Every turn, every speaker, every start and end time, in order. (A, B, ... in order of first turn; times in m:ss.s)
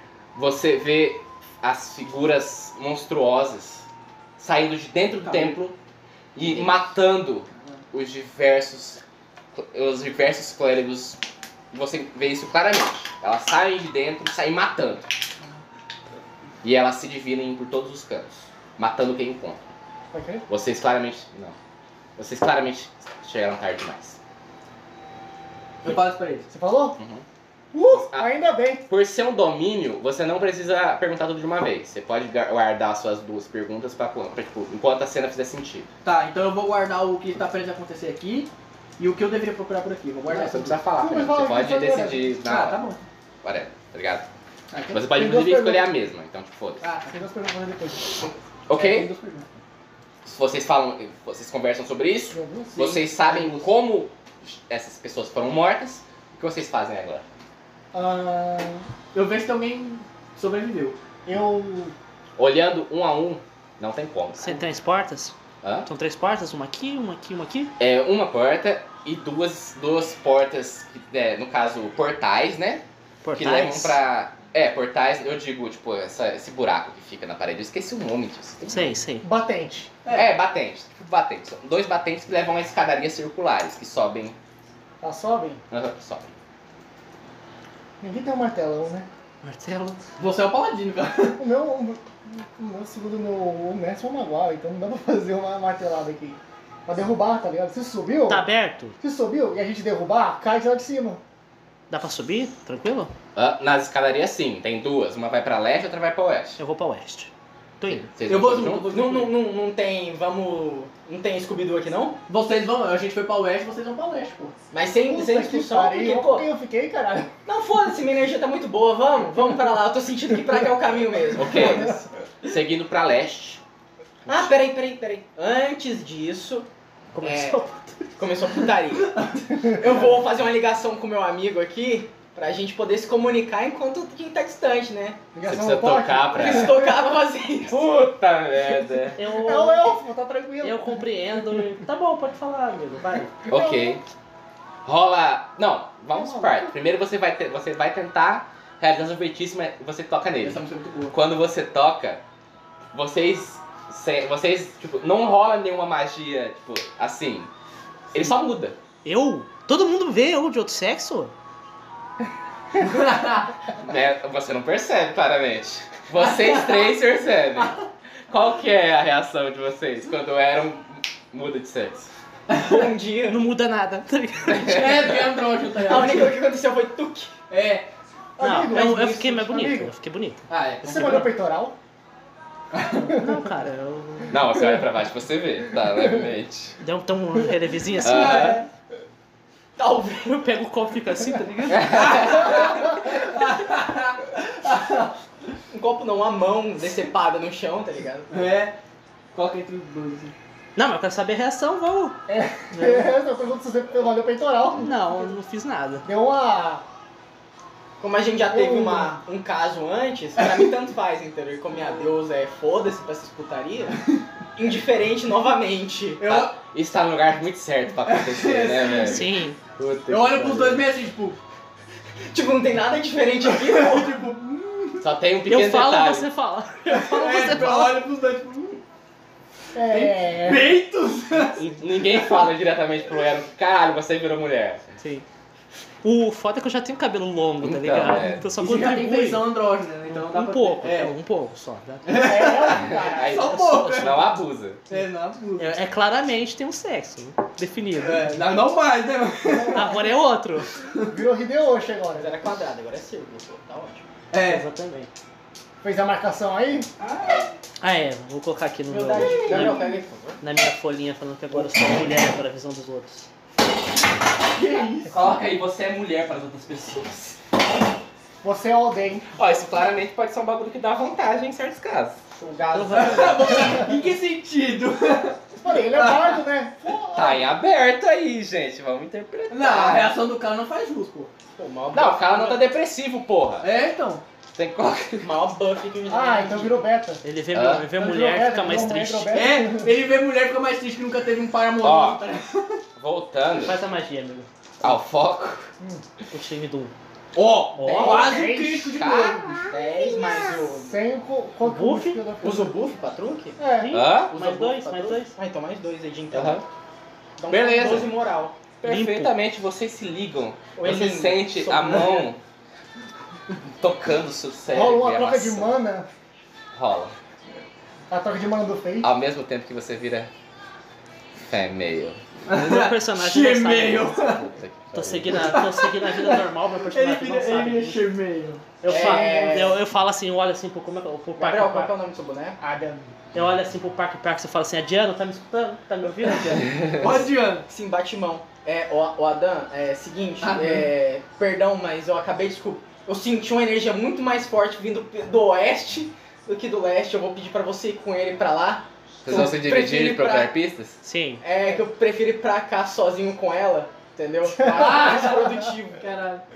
0:00.4-0:03.9 A
0:04.4-0:05.8 A
0:05.2-0:05.6 B
0:06.4-0:09.0 A
0:06.5-0:06.7 B
0:09.5-0:11.2 A
0:11.7-0:15.1 A
0:16.6-0:19.7 A
0:20.1-0:20.5 C
0:20.5-0:21.6 A
0:22.2-0:24.2 A
0:25.8-0:26.5 B
0:26.5-0:27.0 C
0:27.0-0:27.2 A
0:27.7-0:28.9 C
0:27.9-0:35.9 A
0:36.0-0:40.8 B
0:40.3-0:42.8 A
0:41.0-0:42.3 C
0:42.4-0:43.0 B
0:43.4-0:44.3 A
0:44.7-0:45.1 B
0:44.9-0:46.9 A
0:45.1-0:45.9 C
0:46.8-0:47.2 B
0:47.1-0:48.3 C
0:48.7-0:49.1 A
0:48.7-0:49.6 B
0:50.2-0:57.2 A
0:52.3-0:52.8 C
0:52.7-0:53.6 B
0:57.9-0:58.8 C
0:59.1-1:01.0 B
1:01.3-1:01.9 C
1:02.4-1:04.5 A
1:04.4-1:05.4 D
1:05.6-1:05.9 A
1:05.9-1:07.7 D
1:07.8-1:12.8 A
1:13.2-1:14.0 D
1:13.4-1:19.0 A
1:18.7-1:19.3 D
1:19.2-1:19.9 C
1:20.1-1:24.4 A
1:25.0-1:25.6 C
1:25.7-1:26.3 A
1:28.0-1:29.1 C
1:29.4-1:30.0 D
1:30.2-1:31.4 B
1:31.4-1:38.5 C
1:38.3-1:39.0 D
1:39.0-1:41.2 C
1:41.9-1:43.1 D
1:43.4-1:46.6 A
1:46.6-1:48.1 D
1:47.9-1:48.9 A
1:48.3-1:49.4 B
1:48.9-1:52.2 E
1:52.3-1:54.5 B
1:54.7-1:56.5 E
1:55.0-1:57.3 C
1:57.5-2:02.0 E
2:01.4-2:03.6 A
2:04.3-2:04.5 A
2:04.3-2:06.7 E
2:07.1-2:08.2 D
2:07.2-2:07.6 E
2:08.2-2:15.2 E
2:15.3-2:16.8 C
2:15.4-2:16.8 A
2:16.3-2:17.8 E
2:17.7-2:19.2 A
2:19.2-2:19.9 D
2:19.3-2:21.0 C
2:20.6-2:23.3 D
2:23.5-2:24.0 A
2:23.5-2:24.0 C
2:24.8-2:32.2 A
2:26.2-2:26.7 C
2:30.4-2:31.2 B
2:32.9-2:37.5 A
2:38.1-2:38.8 A
2:39.0-2:41.3 D
2:42.8-2:43.5 B
2:43.8-2:47.8 A
2:48.3-2:52.1 A
2:52.5-2:53.4 E
2:53.3-2:55.0 D
2:54.5-2:54.9 A
2:54.6-2:56.4 B
2:55.8-2:57.3 E
2:57.5-2:57.9 B
2:58.4-2:59.9 C
2:58.4-3:00.4 D
3:00.5-3:01.3 B
3:00.8-3:01.8 C
3:02.7-3:03.2 B
3:03.0-3:04.3 D
3:04.3-3:06.7 A
3:06.8-3:08.6 D
3:08.0-3:08.7 B
3:08.0-3:08.6 A
3:09.8-3:10.4 E
3:10.2-3:12.7 D
3:11.8-3:15.1 B
3:11.9-3:12.6 A
3:15.7-3:18.5 E
3:18.3-3:18.8 B
3:19.3-3:20.3 B
3:20.8-3:22.2 D
3:22.3-3:25.0 C
3:24.8-3:26.1 D
3:26.0-3:26.8 C
3:28.0-3:34.0 E
3:28.5-3:29.2 C
3:34.6-3:36.5 E
3:36.2-3:36.6 B
3:36.3-3:39.3 A
3:38.1-3:39.2 B
3:39.1-3:39.6 D
3:39.8-3:40.9 A
3:40.1-3:41.4 B
3:42.3-3:44.2 E
3:43.5-3:45.1 B
3:45.0-3:46.3 A
3:45.5-3:48.1 D
3:46.9-3:48.8 B
3:49.7-3:50.7 C
3:49.9-3:51.7 B
3:51.8-3:54.8 A
3:56.0-3:59.5 D
3:57.6-3:58.4 A
3:58.6-4:01.1 B
4:00.1-4:02.3 D
4:02.1-4:04.4 B
4:02.1-4:03.5 C
4:03.0-4:04.8 A
4:04.9-4:05.7 B
4:05.6-4:08.3 D
4:08.0-4:09.9 B
4:09.5-4:10.1 C
4:09.7-4:10.7 D
4:11.1-4:12.3 C
4:12.2-4:14.1 E
4:14.3-4:14.6 B
4:14.4-4:15.1 D
4:15.8-4:16.9 C
4:17.0-4:17.4 E
4:17.8-4:19.8 D
4:18.9-4:20.4 E
4:20.4-4:23.3 D
4:24.5-4:25.2 B
4:25.1-4:27.4 A
4:28.4-4:29.3 C
4:29.4-4:32.2 A
4:32.4-4:33.6 E
4:32.7-4:33.3 D
4:32.9-4:36.3 B
4:35.6-4:37.5 C
4:37.1-4:40.2 A
4:39.5-4:41.3 B
4:41.6-4:42.6 E
4:41.9-4:43.7 A
4:43.6-4:44.2 B
4:44.6-4:45.3 A
4:45.2-4:46.9 E
4:46.1-4:47.2 C
4:47.2-4:49.3 D
4:47.5-4:47.8 A
4:48.0-4:49.9 C
4:49.3-4:52.8 B
4:51.8-4:52.2 A
4:53.0-4:53.8 A
4:53.6-4:54.5 D
4:54.8-4:55.7 A
4:55.8-4:56.0 C
4:56.3-4:56.9 D
4:57.3-4:59.6 B
4:57.8-4:58.3 D
4:58.0-4:58.4 E
4:58.0-4:59.1 C
4:59.0-4:59.6 A
4:59.7-5:01.0 E
5:00.8-5:02.8 C
5:01.6-5:02.2 D
5:02.4-5:03.6 E
5:03.6-5:04.0 C
5:03.8-5:05.4 D
5:03.9-5:04.3 A
5:04.3-5:06.6 E
5:06.3-5:06.6 A
5:07.4-5:08.6 E
5:07.5-5:08.1 A
5:08.8-5:12.4 A
5:08.8-5:09.4 D
5:10.8-5:12.3 E
5:13.8-5:15.8 A
5:14.7-5:16.1 C
5:16.8-5:17.1 A
5:18.1-5:19.1 C
5:19.0-5:20.3 A
5:21.4-5:22.2 A
5:22.5-5:24.5 B
5:22.5-5:24.2 D
5:24.0-5:25.6 A
5:24.9-5:28.1 D
5:25.3-5:28.8 B
5:28.8-5:31.9 D
5:28.9-5:29.8 E
5:31.4-5:32.6 E
5:32.6-5:33.1 C
5:33.3-5:37.0 D
5:36.9-5:37.7 B
5:37.6-5:50.6 E
5:40.4-5:40.9 B
5:49.2-5:51.0 A
5:51.0-5:51.4 D
5:51.4-5:56.1 E
5:54.7-5:55.3 A
5:56.0-5:56.4 B